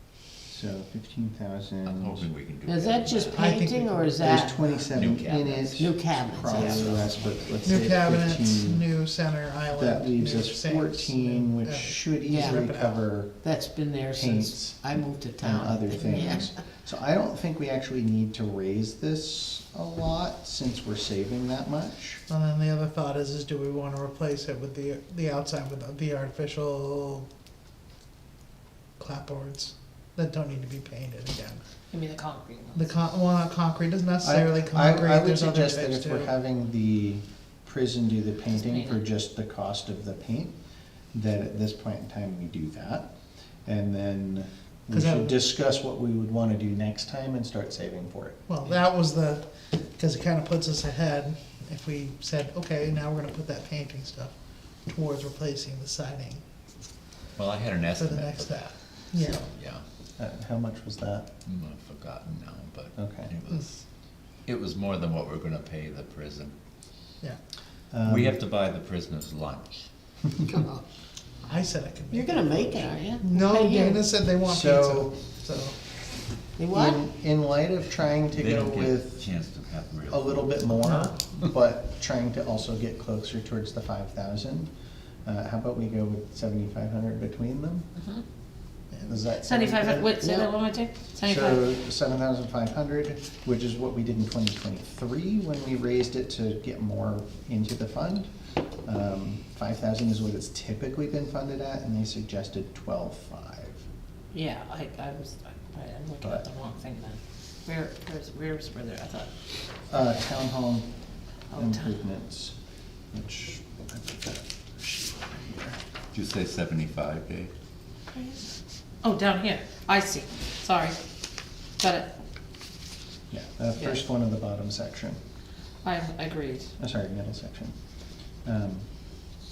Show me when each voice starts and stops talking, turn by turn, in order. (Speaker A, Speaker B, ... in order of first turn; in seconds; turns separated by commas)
Speaker A: 0.5-2.2, Speaker B: 1.8-3.5, Speaker C: 2.7-4.8, Speaker D: 3.3-4.8, Speaker A: 4.2-8.8, Speaker B: 4.9-7.5, Speaker C: 5.8-7.2, Speaker D: 7.6-13.0, Speaker A: 9.7-13.3, Speaker C: 12.3-12.7, Speaker C: 13.4-16.5, Speaker A: 14.1-14.8, Speaker A: 15.4-22.2, Speaker D: 22.3-27.3, Speaker D: 29.0-31.6, Speaker E: 31.9-32.9, Speaker D: 32.7-36.3, Speaker A: 34.2-40.5, Speaker E: 38.5-39.0, Speaker A: 41.1-43.1, Speaker A: 43.6-48.4, Speaker D: 44.9-45.4, Speaker D: 48.5-49.4, Speaker D: 50.0-54.3, Speaker D: 54.9-56.4, Speaker B: 57.4-59.8, Speaker D: 57.9-59.5, Speaker A: 60.2-61.3, Speaker B: 61.5-63.8, Speaker A: 63.0-63.3, Speaker B: 64.5-66.5, Speaker A: 67.9-68.4, Speaker B: 68.0-69.8, Speaker C: 70.5-70.8, Speaker D: 71.4-75.8, Speaker C: 72.1-74.1, Speaker A: 74.4-75.2, Speaker C: 76.6-77.0, Speaker A: 76.7-79.3, Speaker B: 78.3-80.6, Speaker A: 80.1-84.7, Speaker D: 80.8-81.1, Speaker A: 85.2-87.9, Speaker A: 89.0-90.2, Speaker E: 89.4-91.7, Speaker A: 91.2-98.3, Speaker A: 98.8-103.8, Speaker E: 104.3-109.3, Speaker A: 109.9-110.9, Speaker E: 111.5-111.9, Speaker A: 111.5-112.5, Speaker A: 113.1-115.8, Speaker B: 116.1-117.5, Speaker E: 118.1-118.5, Speaker E: 119.0-121.0, Speaker E: 121.8-122.1, Speaker A: 123.3-125.2, Speaker E: 125.8-126.7, Speaker A: 126.8-127.7, Speaker A: 128.4-128.9